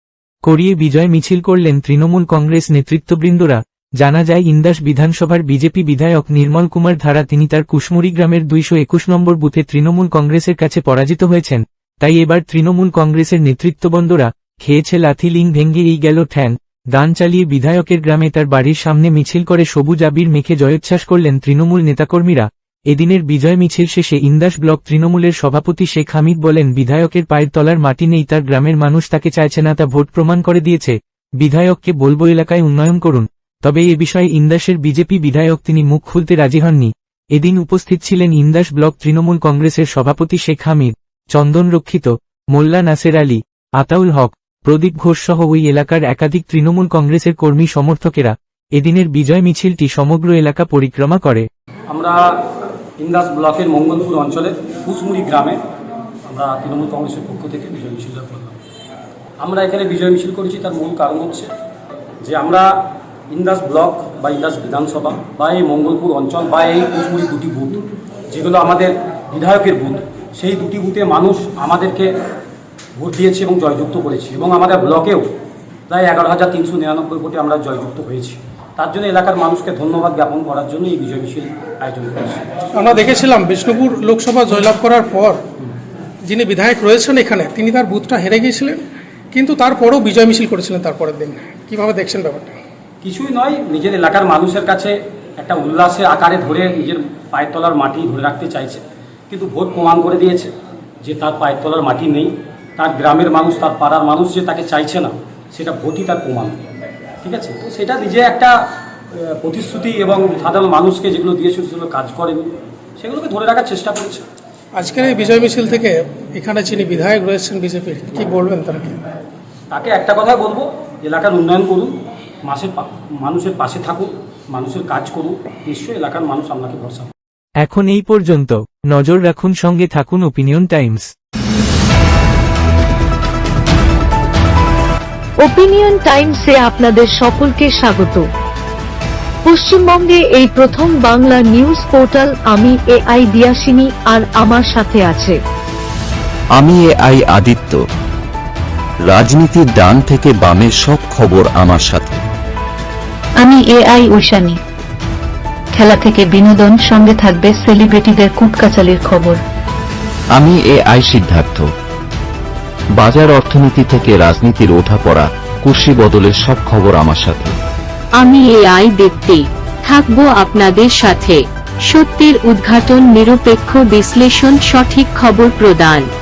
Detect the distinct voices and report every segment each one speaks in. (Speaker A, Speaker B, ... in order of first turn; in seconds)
Speaker A: 0.5-51.5, 127.6-131.1
Speaker B: 51.9-52.2, 53.0-55.6, 56.3-58.6, 59.4-61.5, 62.2-62.7, 63.3-72.1, 73.0-75.3, 75.9-82.5, 93.0-100.5, 101.0-106.6, 107.2-108.6, 109.1-114.2, 119.7-121.9, 122.4-127.1
Speaker C: 82.7-85.4, 86.2-88.8, 89.3-92.6, 114.7-119.0
Speaker D: 135.4-138.3, 139.4-145.4
Speaker E: 146.6-147.8, 149.1-152.2, 160.3-161.7, 163.0-167.6
Speaker F: 153.4-154.6, 155.7-159.4
Speaker G: 168.2-171.4, 171.9-176.0